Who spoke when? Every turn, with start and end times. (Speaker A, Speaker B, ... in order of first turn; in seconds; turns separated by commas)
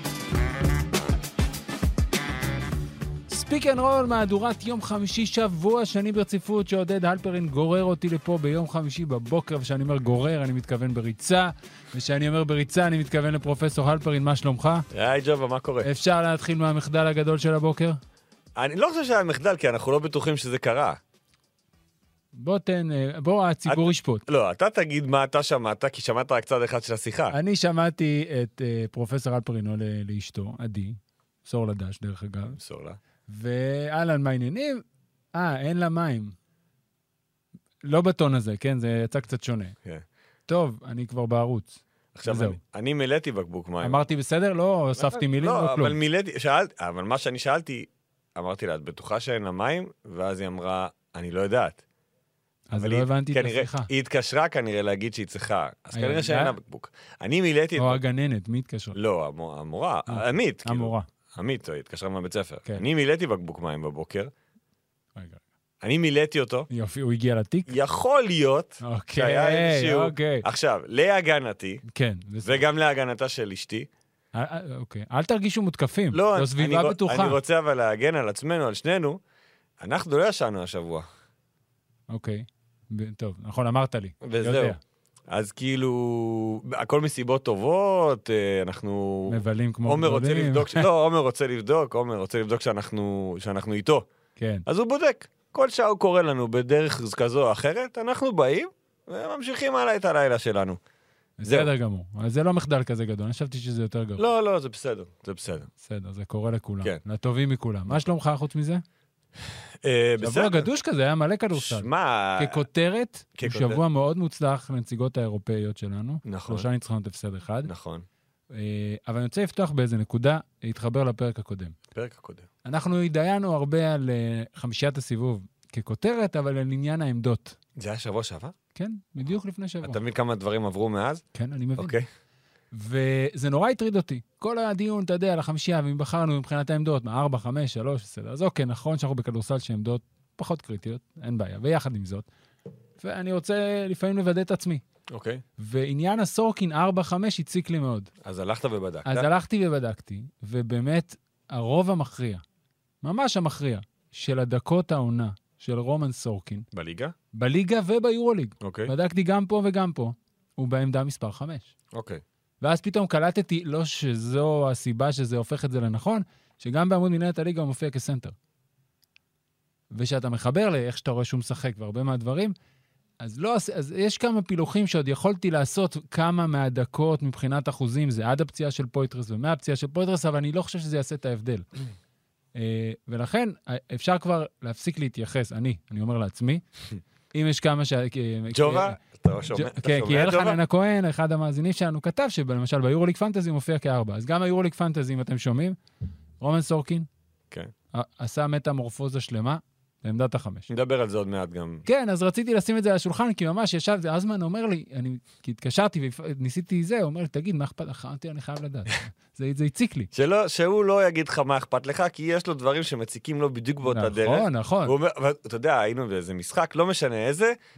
Speaker A: 3.3-14.8, Speaker B: 14.9-15.9, Speaker A: 15.8-18.0, Speaker B: 18.6-21.0, Speaker A: 22.3-24.2, Speaker B: 23.7-27.3, Speaker A: 27.3-32.6, Speaker B: 32.5-33.0, Speaker A: 33.3-36.3, Speaker A: 37.8-39.8, Speaker A: 40.5-42.6, Speaker B: 42.1-44.0, Speaker A: 43.8-46.0, Speaker B: 45.0-51.8, Speaker A: 52.7-53.9, Speaker B: 52.8-58.0, Speaker A: 55.9-56.5, Speaker A: 57.8-59.0, Speaker B: 58.9-64.3, Speaker A: 60.1-61.1, Speaker A: 65.2-65.4, Speaker B: 65.8-66.7, Speaker A: 66.7-67.7, Speaker B: 67.7-71.8, Speaker A: 68.8-70.5, Speaker A: 71.9-72.6, Speaker B: 72.4-73.9, Speaker A: 74.3-77.4, Speaker B: 76.1-79.2, Speaker B: 79.8-81.0, Speaker A: 82.1-84.8, Speaker B: 84.2-84.8, Speaker B: 85.3-94.1, Speaker A: 89.3-90.9, Speaker A: 94.4-94.7, Speaker B: 94.7-100.8, Speaker A: 101.4-104.2, Speaker B: 104.2-105.7, Speaker A: 105.8-108.8, Speaker B: 109.8-110.6, Speaker A: 110.2-117.7, Speaker B: 111.5-112.6, Speaker B: 113.3-113.8, Speaker B: 116.2-116.7, Speaker B: 117.7-118.0, Speaker A: 118.5-121.8, Speaker B: 121.9-122.5, Speaker A: 122.6-127.6, Speaker B: 127.8-128.5, Speaker A: 128.7-130.0, Speaker B: 129.8-131.2, Speaker A: 131.3-131.9, Speaker B: 131.8-132.0, Speaker A: 132.7-142.2, Speaker A: 143.0-144.8, Speaker B: 145.1-145.4, Speaker A: 145.6-148.1, Speaker B: 148.2-149.3, Speaker A: 149.0-152.4, Speaker A: 153.0-156.7, Speaker B: 156.7-157.1, Speaker A: 157.3-161.7, Speaker B: 158.6-158.9, Speaker B: 161.9-162.2, Speaker A: 162.6-168.3, Speaker A: 169.9-172.5, Speaker A: 173.2-181.7, Speaker A: 182.5-186.6, Speaker A: 187.3-189.0, Speaker B: 188.5-190.6, Speaker A: 189.5-195.8, Speaker A: 196.4-197.1, Speaker A: 197.9-200.7, Speaker B: 200.7-201.8, Speaker A: 201.8-210.1, Speaker B: 210.1-217.6, Speaker A: 213.8-214.9